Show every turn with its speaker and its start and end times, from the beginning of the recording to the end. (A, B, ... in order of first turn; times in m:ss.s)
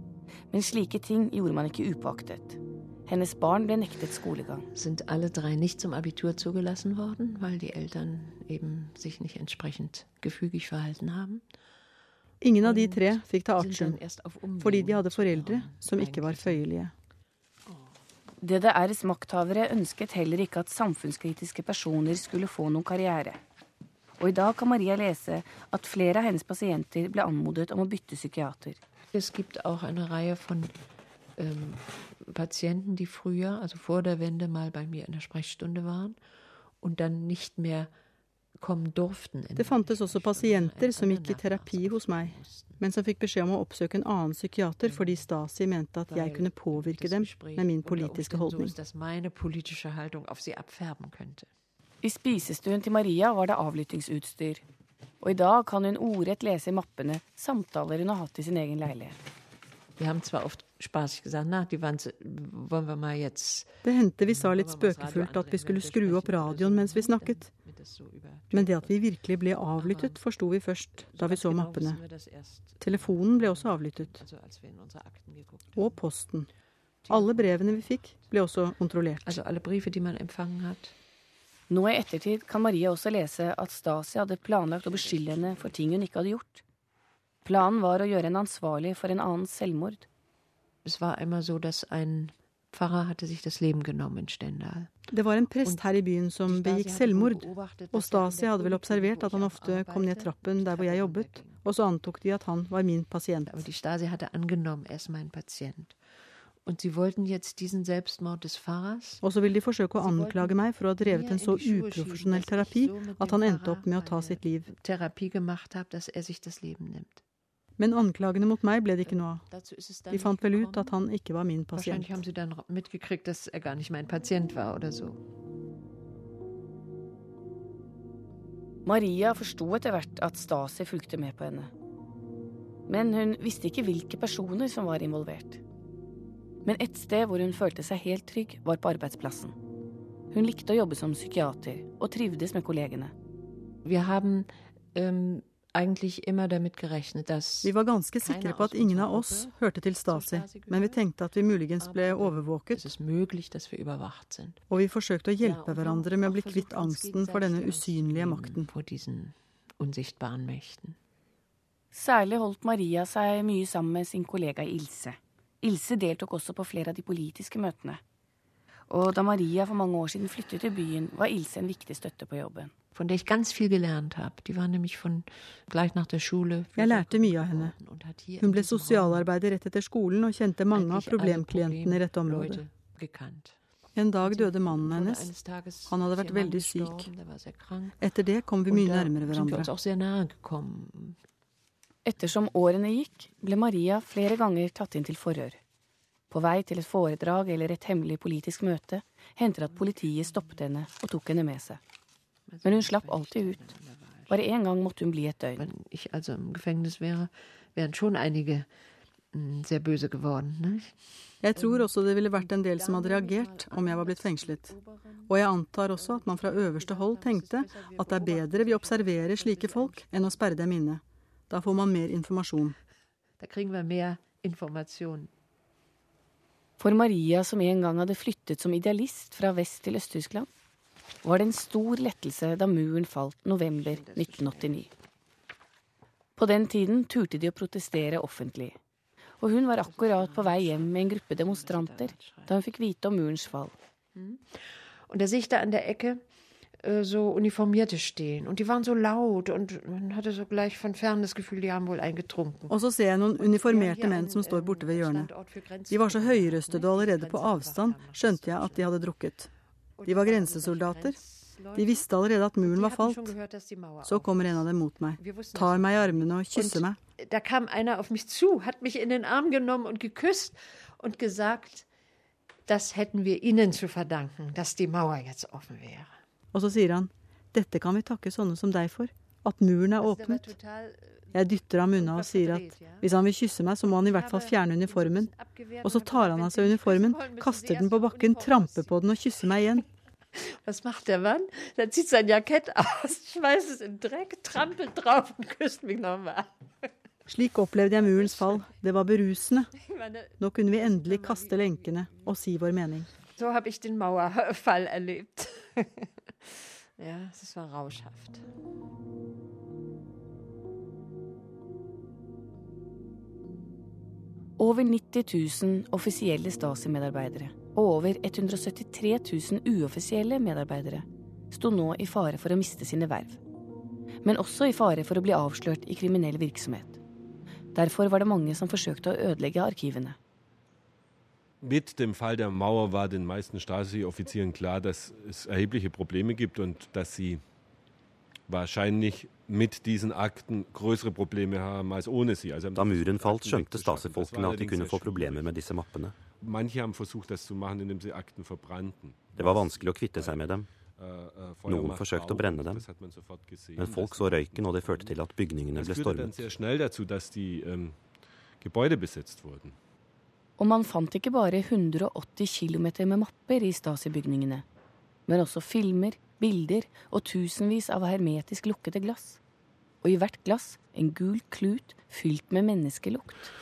0:00.5-0:04.7 A
0:04.7-0:11.4 B
0:12.4-0:14.0 C
0:12.6-0:16.7 B
0:14.6-0:16.9 C
0:17.7-0:18.0 B
0:18.4-0:23.4 A
0:24.2-0:28.8 A
0:29.1-0:30.7 B
0:31.4-0:36.2 B
0:36.8-0:37.9 B
0:38.6-0:42.8 B
0:39.6-0:48.8 C
0:44.8-0:45.3 B
0:46.0-0:51.5 B
0:52.0-0:54.6 A
0:55.2-0:59.2 A
1:00.0-1:09.0 B
1:03.8-1:07.5 C
1:08.5-1:12.0 C
1:09.8-1:10.2 B
1:11.0-1:16.0 B
1:12.8-1:14.2 C
1:15.8-1:16.5 C
1:17.0-1:18.3 B
1:17.1-1:19.4 C
1:19.2-1:20.9 B
1:21.7-1:26.6 A
1:24.7-1:25.8 B
1:27.4-1:30.1 A
1:30.8-1:35.0 B
1:35.1-1:43.5 C
1:35.6-1:41.6 B
1:43.5-1:46.0 B
1:46.6-1:49.2 B
1:49.2-1:54.7 C
1:50.0-1:57.2 B
1:57.8-1:59.5 C
1:59.0-2:01.0 B
2:00.1-2:02.2 C
2:01.7-2:05.2 B
2:08.9-2:11.7 A
2:12.9-2:15.6 A
2:16.6-2:19.6 A
2:20.3-2:23.1 A
2:23.8-2:31.0 B
2:27.6-2:32.9 C
2:31.8-2:34.8 B
2:34.7-2:38.7 C
2:35.4-2:41.0 B
2:41.9-2:48.0 A
2:48.9-2:52.7 A
2:53.0-2:59.3 B
2:56.8-2:57.8 C
2:58.4-3:02.6 C
3:00.7-3:03.6 B
3:04.0-3:05.4 C
3:04.2-3:08.1 B
3:05.9-3:07.1 C
3:08.0-3:09.7 C
3:08.7-3:11.2 B
3:12.0-3:15.6 A
3:16.3-3:21.8 A
3:19.7-3:20.6 B
3:22.5-3:24.4 B
3:22.6-3:23.6 A
3:24.3-3:25.7 A
3:25.6-3:28.7 B
3:29.3-3:40.6 B
3:31.4-3:34.7 C
3:35.3-3:42.8 C
3:43.4-3:45.3 B
3:46.8-3:50.5 A
3:51.2-3:54.9 A
3:53.7-3:54.8 B
3:56.4-3:58.8 A
3:59.4-4:03.7 A
3:59.8-4:02.6 B
4:04.2-4:12.8 B
4:12.7-4:15.3 C
4:13.3-4:19.1 B
4:15.9-4:19.5 C
4:20.0-4:22.1 B
4:20.1-4:21.2 C
4:21.8-4:23.4 C
4:22.6-4:31.9 B
4:24.0-4:27.0 C
4:32.7-4:36.2 B
4:36.5-4:40.5 C
4:40.0-4:43.1 B
4:41.3-4:45.3 C
4:43.8-4:49.8 B
4:45.8-4:49.8 C
4:50.3-4:56.9 B
4:57.3-4:59.7 C
4:57.8-4:58.8 B
4:59.7-5:02.5 B
5:00.4-5:03.1 C
5:03.1-5:08.4 B
5:14.6-5:23.4 A
5:24.2-5:27.0 A
5:27.8-5:30.2 A
5:31.6-5:37.4 D
5:38.5-5:45.6 D
5:42.8-5:46.1 E
5:46.4-5:55.2 D
5:49.4-5:50.7 E
5:51.7-5:52.8 E
5:53.8-5:56.4 E
5:55.7-5:58.0 D
5:58.6-5:59.8 D
6:00.6-6:04.6 A
6:05.3-6:09.4 A
6:10.0-6:13.5 A